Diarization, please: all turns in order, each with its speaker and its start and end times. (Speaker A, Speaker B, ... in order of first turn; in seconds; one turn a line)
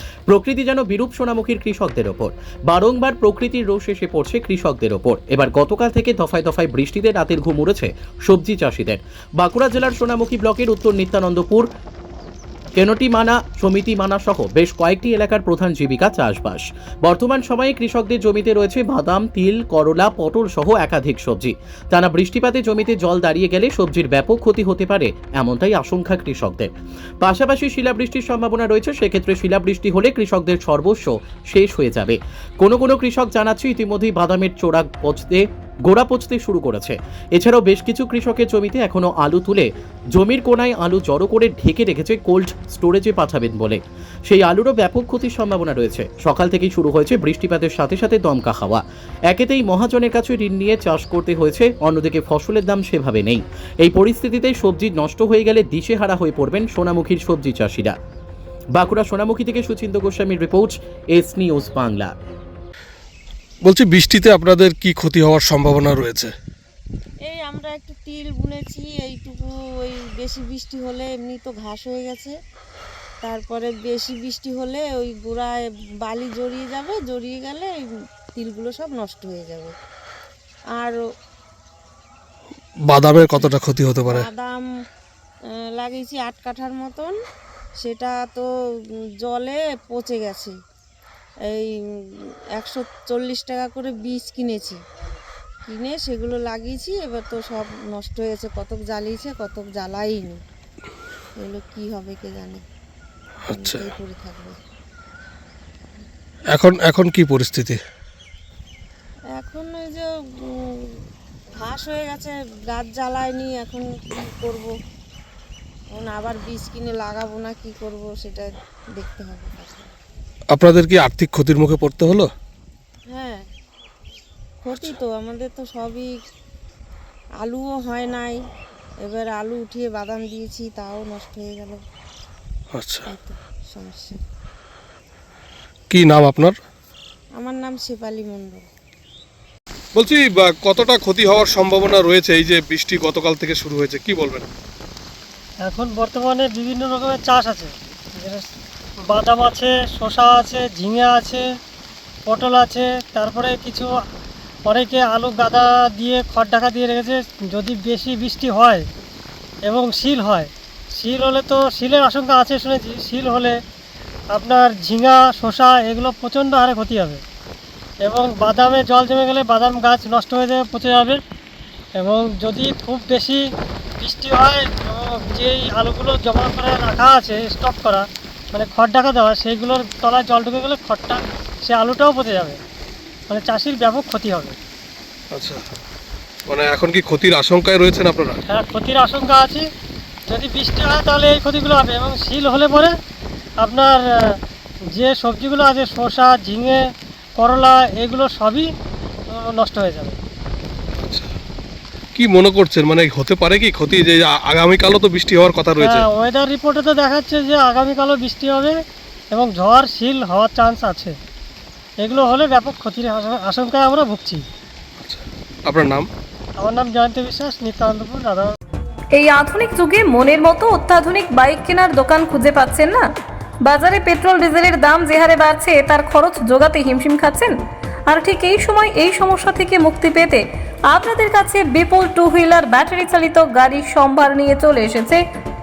Speaker A: 0.3-11.7
Speaker A: 12.8-26.7
Speaker A: 27.2-57.9
Speaker A: 58.7-62.1
Speaker B: 63.6-66.3
Speaker C: 67.2-72.3
Speaker C: 73.2-77.7
Speaker C: 78.3-79.7
Speaker B: 82.8-84.3
Speaker C: 84.0-84.6
Speaker C: 85.8-87.1
Speaker C: 87.8-88.5
Speaker C: 89.2-90.5
Speaker C: 92.6-94.8
Speaker C: 95.7-100.4
Speaker C: 101.4-102.6
Speaker B: 103.5-103.8
Speaker C: 103.5-104.5
Speaker B: 106.5-107.8
Speaker C: 109.4-110.8
Speaker C: 111.6-114.7
Speaker C: 115.9-119.9
Speaker B: 120.5-122.3
Speaker C: 123.1-123.4
Speaker C: 124.6-126.1
Speaker C: 127.4-128.4
Speaker C: 129.0-131.8
Speaker B: 132.7-133.1
Speaker C: 133.1-134.2
Speaker B: 135.9-136.6
Speaker C: 137.4-138.6
Speaker B: 139.9-144.5
Speaker D: 145.6-148.4
Speaker D: 149.0-151.4
Speaker D: 152.3-153.9
Speaker D: 154.7-158.8
Speaker D: 159.7-163.6
Speaker D: 164.3-167.2
Speaker D: 168.0-171.2
Speaker D: 172.0-173.4
Speaker D: 174.0-182.6
Speaker D: 183.3-184.6
Speaker B: 185.3-185.7
Speaker B: 186.4-188.4
Speaker D: 188.4-189.7
Speaker D: 190.3-192.9
Speaker D: 193.6-194.4
Speaker D: 194.9-196.8
Speaker D: 197.4-198.7
Speaker D: 199.2-200.2
Speaker B: 200.9-201.3
Speaker B: 202.1-206.1
Speaker D: 205.8-208.8
Speaker D: 209.3-211.2
Speaker D: 212.0-214.4
Speaker B: 215.0-216.1
Speaker D: 216.6-218.5
Speaker E: 219.1-223.0
Speaker E: 223.6-227.5
Speaker E: 228.1-235.2